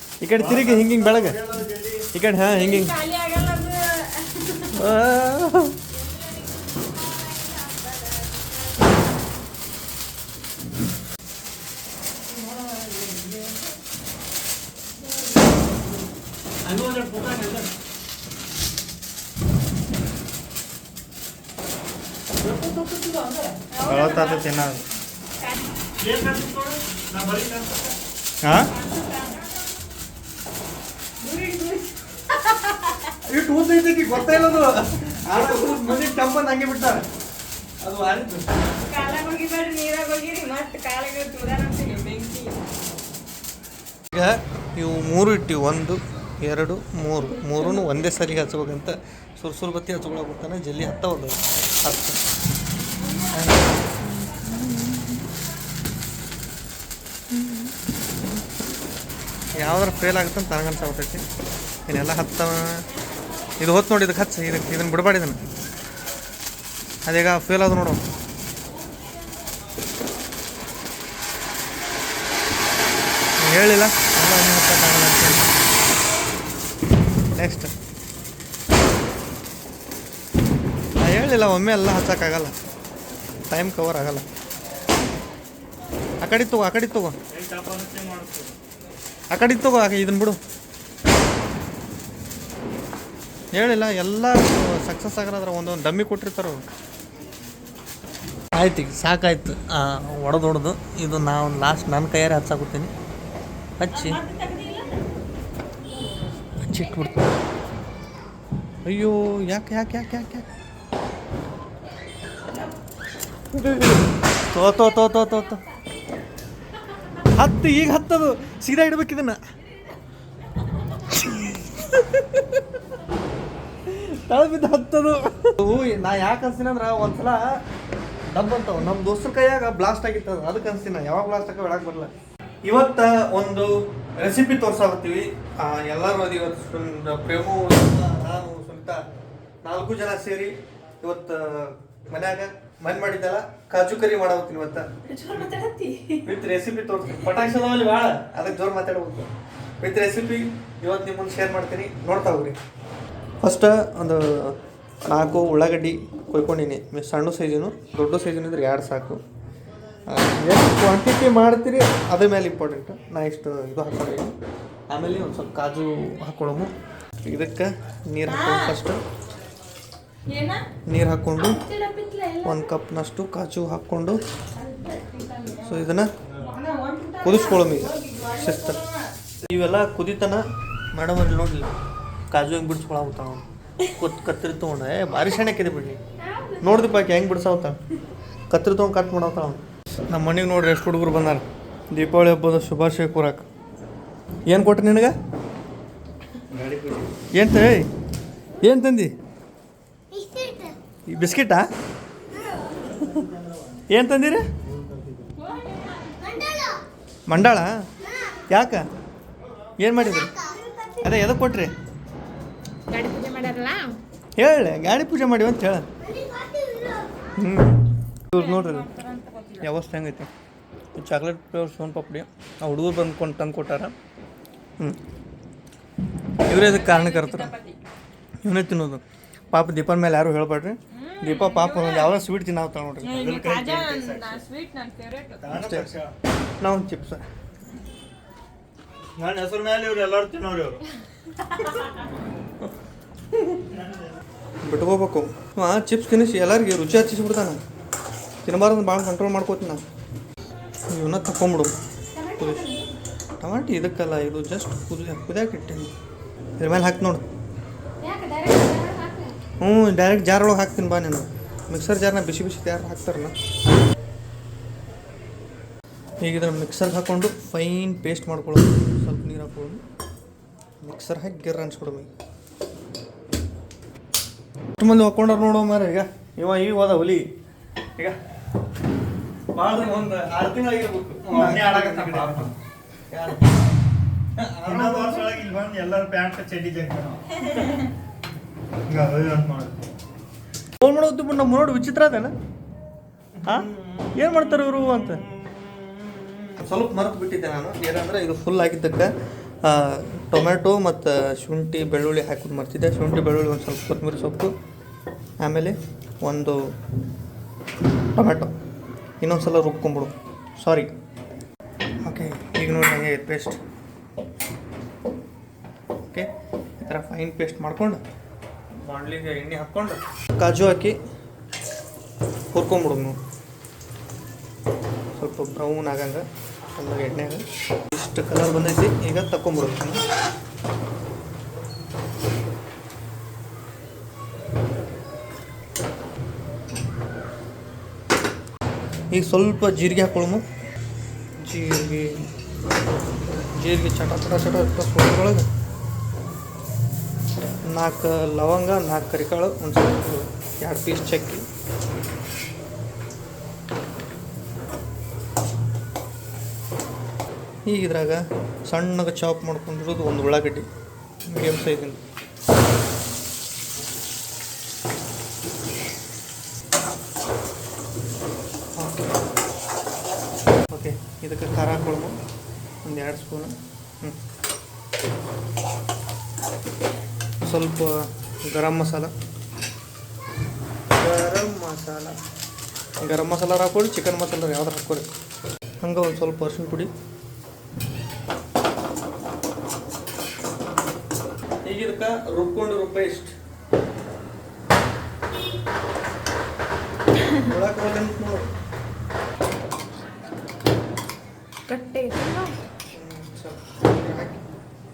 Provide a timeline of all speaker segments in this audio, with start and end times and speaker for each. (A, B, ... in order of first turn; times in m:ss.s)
0:00.2-0:01.4 A
0:00.3-0:02.1 B
0:02.1-0:02.9 A
0:02.5-0:03.7 C
0:03.1-0:03.4 D
0:04.7-0:05.8 A
0:06.1-0:08.6 D
0:12.3-0:13.5 B
0:16.7-0:17.7 B
0:22.4-0:23.6 B
0:23.7-0:24.5 C
0:23.9-0:24.8 A
0:26.0-0:28.0 B
0:28.4-0:28.7 A
0:28.7-0:29.8 C
0:31.2-0:33.1 C
0:33.2-0:37.1 A
0:37.8-0:38.5 A
0:38.8-0:42.6 C
0:44.1-0:52.2 A
0:53.3-0:53.7 A
0:57.3-0:57.7 D
0:59.6-1:01.2 A
1:01.9-1:02.9 A
1:03.6-1:05.4 A
1:07.1-1:08.0 A
1:13.4-1:15.5 A
1:17.4-1:17.7 A
1:21.0-1:22.5 A
1:23.5-1:24.3 A
1:26.2-1:27.2 A
1:27.3-1:28.6 B
1:29.3-1:30.4 A
1:33.5-1:36.6 A
1:38.5-1:42.9 A
1:43.8-1:44.2 A
1:43.9-1:45.0 C
1:46.6-1:47.2 A
1:48.8-1:50.5 A
1:53.5-1:55.6 A
1:57.4-1:59.4 A
2:01.1-2:02.6 A
2:03.9-2:07.6 A
2:08.3-2:12.1 A
2:12.6-2:19.0 A
2:19.6-2:24.9 A
2:25.1-2:26.3 D
2:26.2-2:29.3 A
2:29.8-2:32.6 A
2:33.4-2:39.2 A
2:40.1-2:44.3 A
2:44.9-2:46.7 A
2:47.2-2:49.0 A
2:48.3-2:48.8 C
2:50.3-2:50.6 C
2:50.9-2:51.6 A
2:51.5-2:52.7 D
2:52.4-2:54.2 A
2:54.5-2:55.9 C
2:55.6-2:56.1 A
2:56.2-2:56.5 B
2:56.4-2:59.1 C
2:57.2-2:58.8 A
2:59.4-3:00.4 A
3:00.9-3:01.7 A
3:02.3-3:06.0 A
3:06.2-3:07.0 D
3:06.6-3:07.8 A
3:08.5-3:13.5 A
3:14.5-3:15.2 A
3:16.5-3:17.2 B
3:17.3-3:17.9 A
3:18.6-3:19.1 A
3:20.2-3:20.7 D
3:21.1-3:21.7 A
3:22.8-3:23.8 B
3:23.9-3:24.4 A
3:24.6-3:25.3 B
3:25.4-3:26.5 C
3:26.0-3:26.7 D
3:27.3-3:27.7 A
3:28.5-3:28.8 A
3:29.8-3:30.3 A
3:31.0-3:31.7 A
3:32.9-3:34.0 D
3:34.4-3:35.8 A
3:37.4-3:38.9 A
3:38.3-3:39.7 C
3:39.6-3:40.3 A
3:41.0-3:43.9 A
3:46.4-3:47.5 A
3:46.5-3:47.8 C
3:48.4-3:49.0 A
3:49.5-3:53.2 A
3:50.9-3:52.2 C
3:53.0-3:55.5 C
3:53.1-3:54.4 B
3:55.4-3:56.1 B
3:55.5-3:55.9 A
3:56.6-3:57.2 A
3:59.2-4:00.8 B
4:03.7-4:04.2 B
4:04.6-4:07.6 A
4:08.4-4:09.8 A
4:10.9-4:11.7 A
4:12.1-4:13.0 D
4:12.4-4:12.7 A
4:13.4-4:15.9 A
4:16.6-4:17.2 A
4:18.0-4:19.4 D
4:19.6-4:23.3 A
4:26.2-4:29.8 A
4:30.8-4:32.1 A
4:34.8-4:37.2 A
4:39.6-4:42.5 A
4:41.3-4:42.5 B
4:43.1-4:43.4 A
4:44.4-4:45.4 A
4:44.7-4:47.8 B
4:48.9-4:49.8 B
4:50.8-4:52.3 A
4:53.4-4:55.7 B
4:53.4-4:55.2 A
4:56.6-4:59.1 A
4:59.6-5:04.5 A
5:05.4-5:06.6 A
5:08.2-5:08.5 A
5:09.2-5:10.9 A
5:12.0-5:13.6 A
5:16.8-5:18.0 A
5:18.8-5:21.0 A
5:22.5-5:23.2 A
5:25.2-5:26.2 A
5:26.8-5:30.0 A
5:39.1-5:40.4 A
5:41.4-5:42.3 A
5:43.6-5:45.5 A
5:47.7-5:51.5 A
5:57.7-6:00.7 A
6:01.3-6:02.0 A
6:08.8-6:09.2 A
6:10.7-6:12.2 A
6:12.8-6:14.2 A
6:17.4-6:19.1 A
6:21.0-6:22.2 A
6:23.0-6:25.1 A
6:25.8-6:26.9 A
6:31.6-6:33.3 A
6:37.4-6:38.5 A
6:41.7-6:42.5 D
6:42.9-6:44.4 A